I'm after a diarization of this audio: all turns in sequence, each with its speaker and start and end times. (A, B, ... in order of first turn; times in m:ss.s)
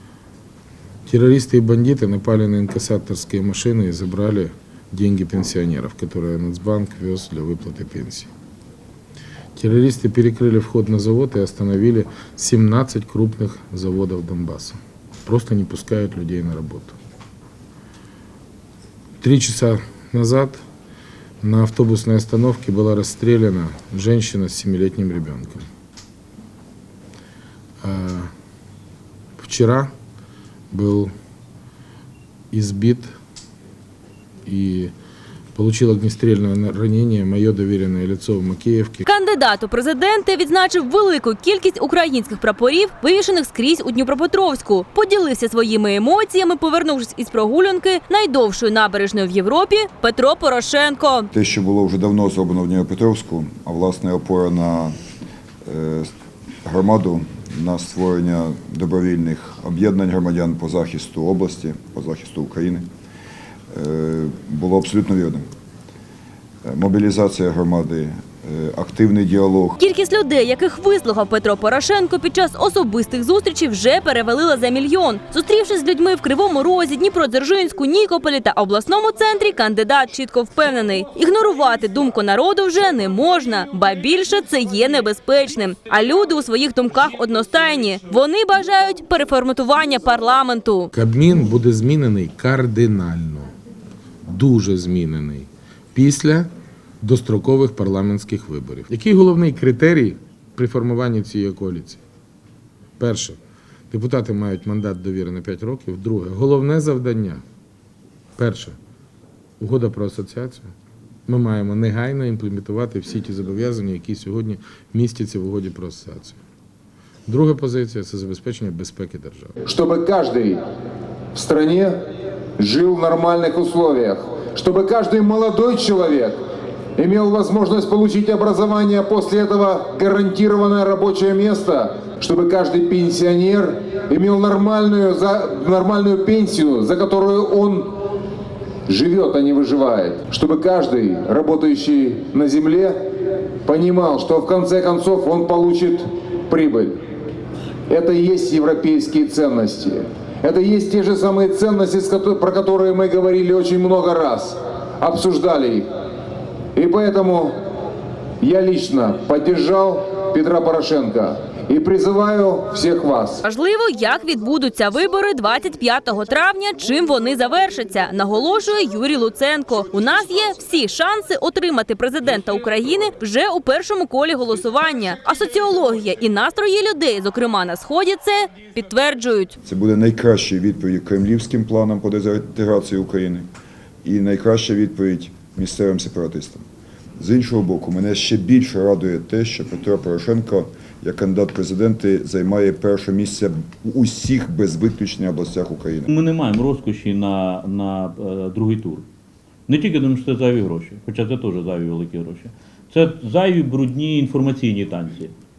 0:01.0-0:08.3 A
0:09.6-0:16.9 A
0:19.2-0:20.6 A
0:21.4-0:25.7 A
0:27.8-0:28.3 A
0:29.4-0:29.9 A
0:30.7-0:31.1 A
0:32.5-0:33.1 A
0:34.4-0:34.9 A
0:35.6-0:39.0 A
0:39.0-0:51.3 B
0:51.3-0:55.0 C
0:55.6-0:56.1 C
0:56.6-1:02.9 C
1:03.7-1:05.5 C
1:06.6-1:09.8 C
1:09.8-1:30.9 B
1:30.9-1:33.5 A
1:34.3-1:36.5 A
1:37.0-1:42.0 A
1:43.0-1:43.4 A
1:43.9-1:47.4 A
1:48.4-1:48.8 A
1:49.6-1:50.7 A
1:51.2-1:56.4 A
1:57.2-1:59.6 A
1:59.6-2:00.6 D
2:01.3-2:02.0 D
2:02.6-2:06.4 D
2:07.0-2:18.0 D
2:18.8-2:23.0 D
2:23.6-2:27.0 D
2:27.9-2:35.9 D
2:36.7-2:37.6 D
2:38.4-2:43.4 D
2:43.4-2:59.6 B
2:59.6-3:03.5 C
3:04.0-3:06.6 C
3:07.2-3:16.1 C
3:16.1-3:19.0 E
3:19.7-3:25.3 E